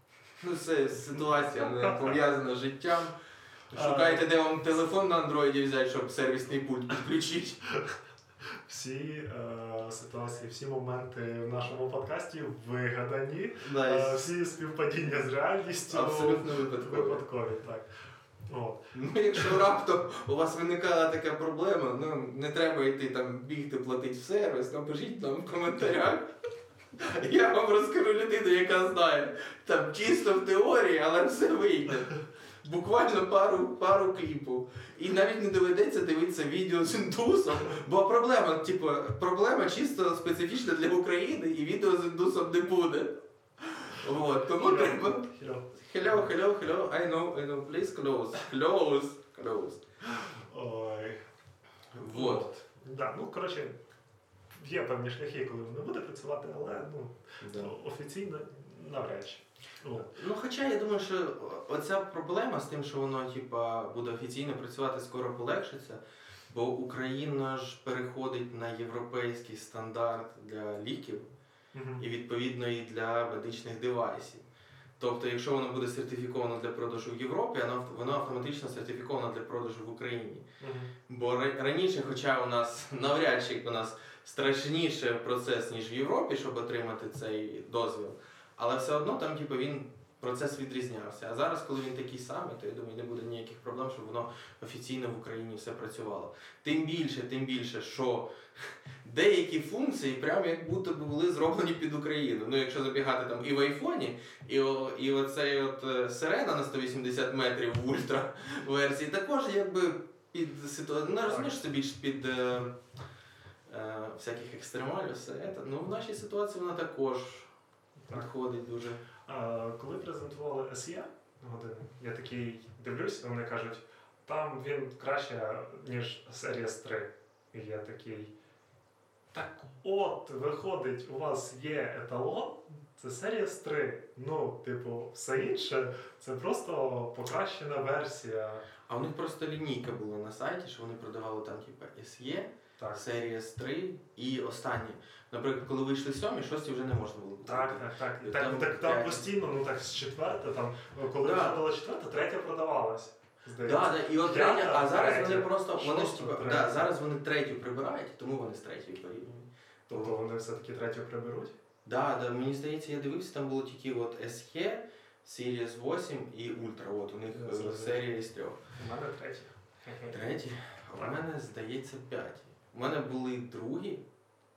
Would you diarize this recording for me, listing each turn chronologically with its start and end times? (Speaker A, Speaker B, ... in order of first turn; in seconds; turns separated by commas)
Speaker A: 0.4-3.1, Speaker B: 1.1-2.2, Speaker A: 3.7-7.6, Speaker B: 3.7-4.3, Speaker B: 8.7-17.9, Speaker A: 13.6-14.3, Speaker A: 15.9-17.2, Speaker B: 18.5-18.8, Speaker A: 18.9-26.3, Speaker A: 27.0-49.8, Speaker B: 44.5-45.8, Speaker B: 50.0-51.2, Speaker A: 51.9-52.5, Speaker B: 52.1-53.8, Speaker B: 54.6-60.1, Speaker A: 57.4-57.7, Speaker A: 60.1-71.3, Speaker B: 71.7-72.0, Speaker A: 72.0-74.5, Speaker A: 75.0-80.5, Speaker B: 80.6-80.9, Speaker A: 81.1-112.8, Speaker B: 111.2-111.6, Speaker A: 113.7-117.5, Speaker A: 118.1-119.0, Speaker B: 119.3-128.3, Speaker B: 129.3-138.7, Speaker A: 138.9-149.3, Speaker B: 142.8-143.1, Speaker B: 147.5-156.9, Speaker A: 151.2-151.6, Speaker A: 153.6-160.1, Speaker B: 159.9-161.6, Speaker A: 161.8-168.6, Speaker B: 167.3-168.0, Speaker B: 168.8-170.2, Speaker A: 170.1-174.0